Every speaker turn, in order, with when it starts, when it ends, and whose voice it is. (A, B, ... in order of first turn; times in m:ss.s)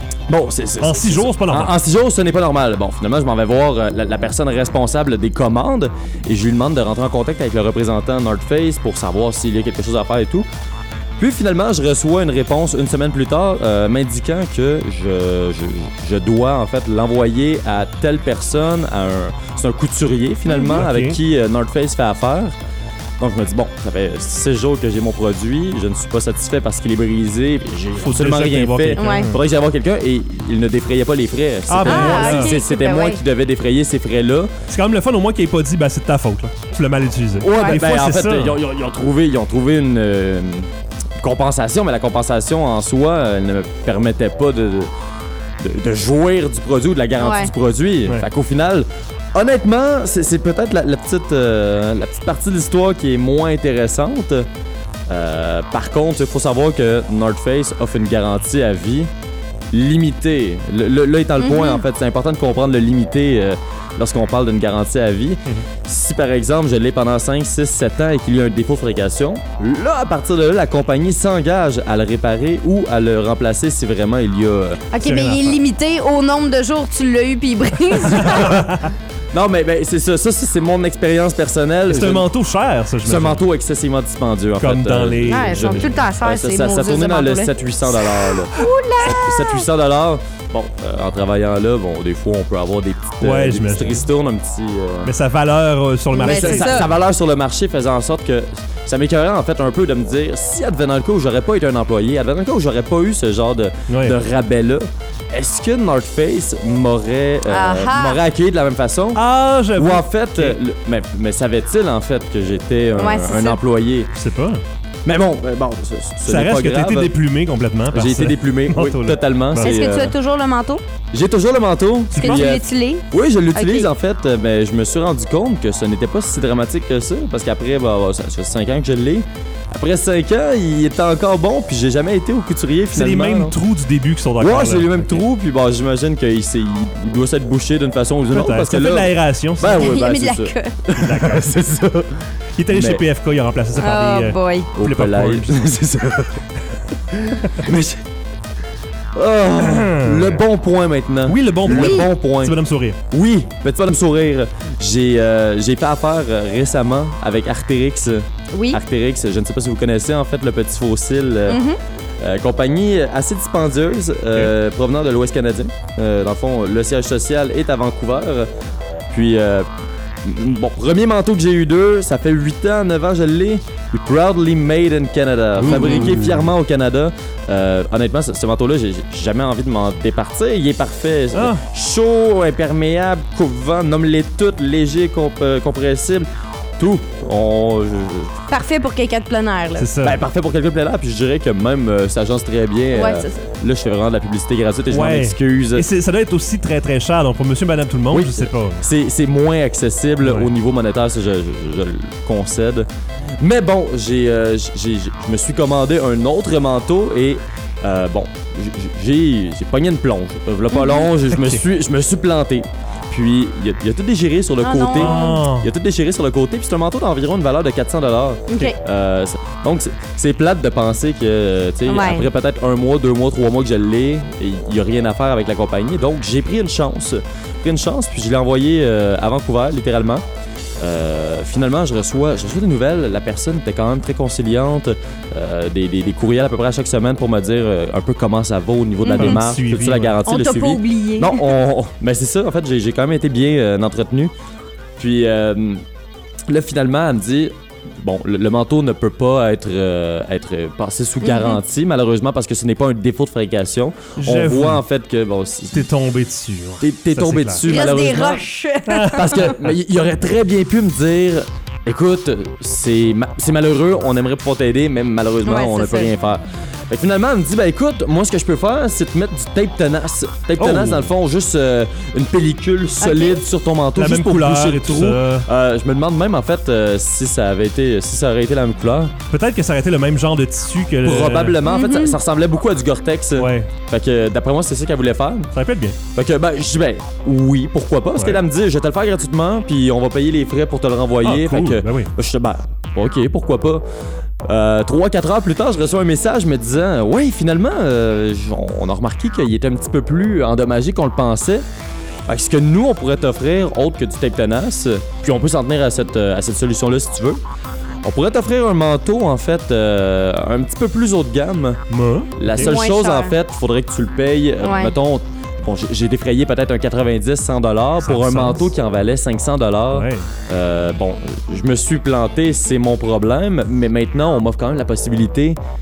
0:00.3-0:10.5 A
0:00.8-0:01.7 B
0:11.2-0:22.6 A
0:20.5-0:21.2 B
0:23.2-0:34.5 A
0:28.0-0:29.4 B
0:28.9-0:29.3 C
0:31.7-0:32.6 B
0:31.8-0:33.2 C
0:34.7-0:38.6 B
0:37.4-0:40.7 A
0:37.5-0:37.8 C
0:41.2-0:44.9 A
0:45.6-0:54.5 A
0:47.2-0:47.5 C
0:55.1-0:59.1 A
0:59.7-1:14.8 A
1:01.4-1:01.8 C
1:14.9-1:18.5 C
1:15.0-1:15.6 B
1:18.1-1:18.7 A
1:18.1-1:18.9 B
1:19.3-1:22.3 A
1:21.9-1:23.4 B
1:23.0-1:35.1 A
1:24.6-1:26.0 B
1:25.3-1:29.6 C
1:33.2-1:34.1 B
1:35.0-1:36.9 B
1:36.1-1:36.9 C
1:36.2-1:49.2 A
1:43.9-1:44.2 B
1:47.5-1:48.2 C
1:49.1-1:50.6 B
1:49.8-1:54.1 A
1:53.0-1:53.6 C
1:54.1-1:54.6 B
1:55.0-1:57.1 A
1:56.2-1:59.8 B
1:57.9-2:00.1 A
1:59.6-2:00.8 C
2:01.1-2:13.6 A
2:02.1-2:02.5 B
2:02.1-2:03.9 C
2:12.9-2:15.2 B
2:14.4-2:23.0 A
2:18.3-2:19.9 B
2:19.7-2:20.8 C
2:20.9-2:21.5 B
2:22.6-2:25.6 B
2:23.8-2:24.7 C
2:24.7-2:26.4 A
2:27.1-2:28.0 A
2:29.2-2:32.6 A
2:29.6-2:30.4 B
2:31.2-2:33.0 B
2:31.7-2:32.1 C
2:33.1-2:41.6 A
2:38.5-2:38.8 C
2:41.5-2:41.8 C
2:42.2-2:48.5 A
2:49.1-2:49.7 A
2:50.2-3:06.3 A
2:55.6-2:56.5 B
2:55.7-2:56.1 C
3:01.3-3:01.6 B
3:06.8-3:08.3 A
3:08.5-3:09.9 C
3:09.8-3:10.2 B
3:10.0-3:15.9 A
3:12.9-3:13.3 C
3:14.9-3:18.8 B
3:18.1-3:22.9 A
3:20.2-3:20.5 B
3:23.4-3:50.2 A
3:30.7-3:31.1 C
3:31.3-3:31.6 B
3:34.6-3:35.4 C
3:34.9-3:35.7 B
3:38.5-3:38.8 C
3:41.8-3:42.3 C
3:50.8-4:04.3 A
3:59.0-3:59.4 C
3:59.2-4:00.2 B
4:00.2-4:01.5 C
4:05.0-4:05.8 A
4:06.5-4:15.9 A
4:11.2-4:11.6 C
4:14.2-4:14.8 B
4:15.7-4:17.7 B
4:16.8-4:18.4 A
4:17.6-4:19.6 C
4:18.8-4:19.5 B
4:19.1-4:39.1 A
4:25.4-4:26.1 C
4:30.6-4:31.1 B
4:33.0-4:33.4 C
4:33.9-4:35.5 B
4:39.3-4:41.6 B
4:41.0-4:45.5 A
4:41.6-4:42.2 C
4:43.4-4:43.7 B
4:45.5-4:46.0 B
4:46.2-4:53.8 A
4:51.2-4:52.1 B
4:54.5-5:01.6 A
5:02.3-5:07.4 A
5:08.0-5:11.8 A
5:11.9-5:12.7 B
5:12.4-5:25.6 A
5:12.6-5:13.4 C
5:14.6-5:14.9 C
5:18.0-5:18.7 B
5:19.9-5:20.3 B